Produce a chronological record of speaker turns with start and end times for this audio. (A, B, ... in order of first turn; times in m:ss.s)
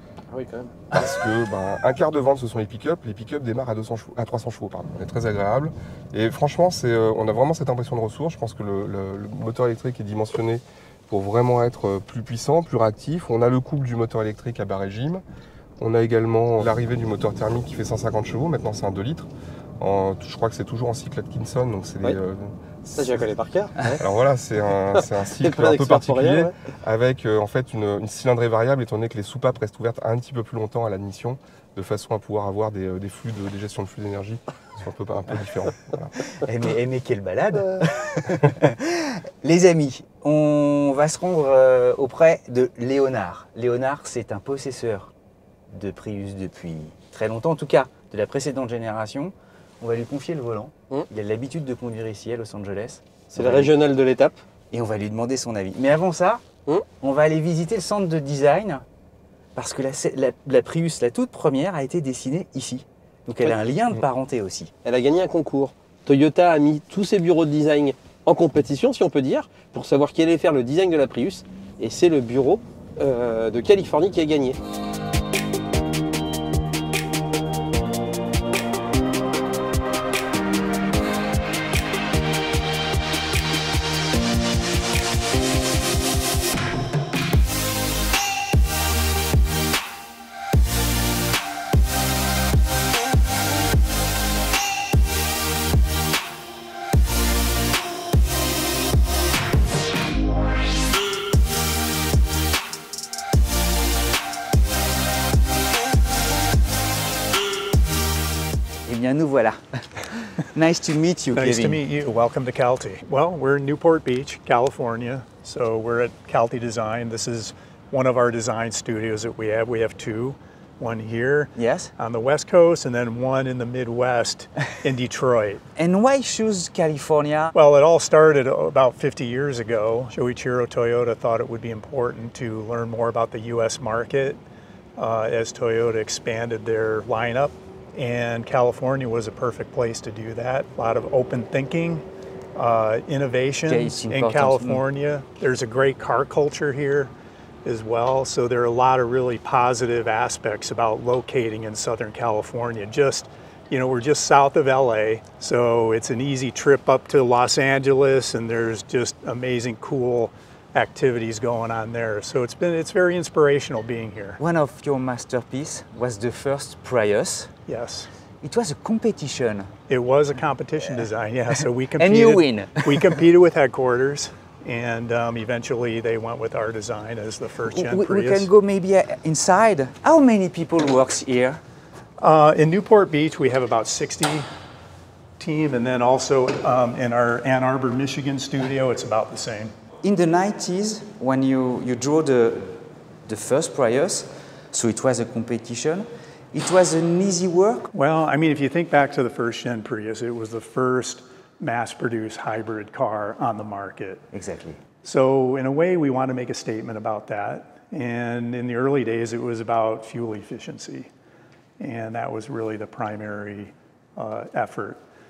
0:00.3-0:00.8 A
0:00.9-0:15.2 B
0:15.8-0:19.3 B
0:19.8-0:23.3 B
0:23.0-0:24.0 A
0:24.0-0:36.2 B
0:24.9-0:26.5 A
0:36.3-0:45.1 C
0:45.7-0:53.7 C
0:53.3-0:54.4 A
0:54.7-0:56.4 C
0:57.0-0:58.8 C
0:59.6-1:04.7 C
1:04.8-1:14.6 A
1:48.8-1:51.8 C
1:51.3-2:05.6 D
2:01.6-2:01.9 C
2:05.8-2:07.5 C
2:07.5-2:14.4 D
2:15.0-2:27.1 D
2:23.6-2:24.8 C
2:27.6-2:44.4 D
2:44.4-2:47.5 C
2:47.7-2:48.1 D
2:48.4-2:49.7 C
2:49.9-2:58.5 D
2:52.0-2:53.1 C
2:57.7-3:01.6 C
3:02.2-3:04.5 D
3:05.4-3:09.7 D
3:10.0-3:17.9 C
3:17.9-3:24.2 D
3:24.3-3:24.8 C
3:25.0-3:31.1 D
3:31.8-3:35.0 D